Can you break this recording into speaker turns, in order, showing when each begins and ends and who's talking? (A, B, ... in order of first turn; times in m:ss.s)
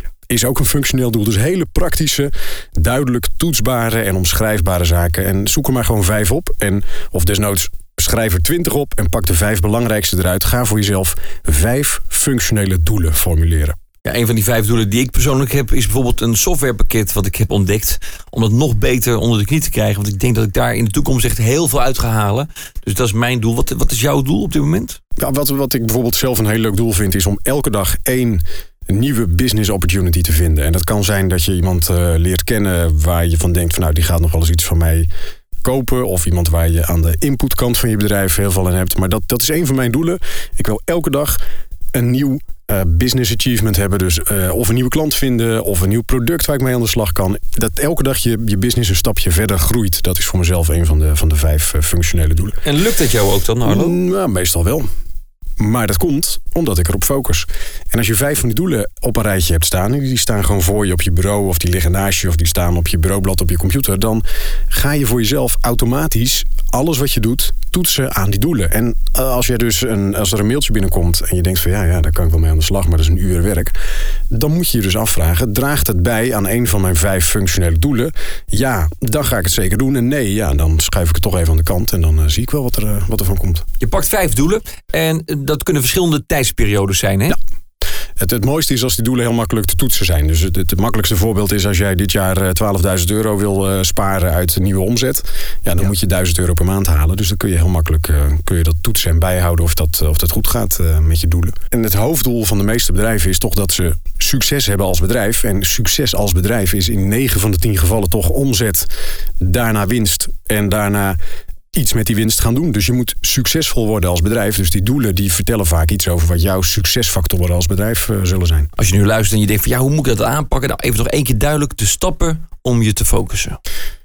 0:00.3-0:13.8 A
0:14.0-0:25.0 B
0:25.2-0:35.1 A
0:35.6-0:41.4 A
0:41.9-0:52.6 A
0:52.6-0:54.0 B
0:53.6-0:54.9 A
0:55.6-1:13.7 A
1:14.3-1:23.7 A
1:23.8-1:27.4 B
1:28.2-1:48.9 A
1:49.4-1:51.2 A
1:51.7-1:58.7 A
1:58.8-2:03.6 B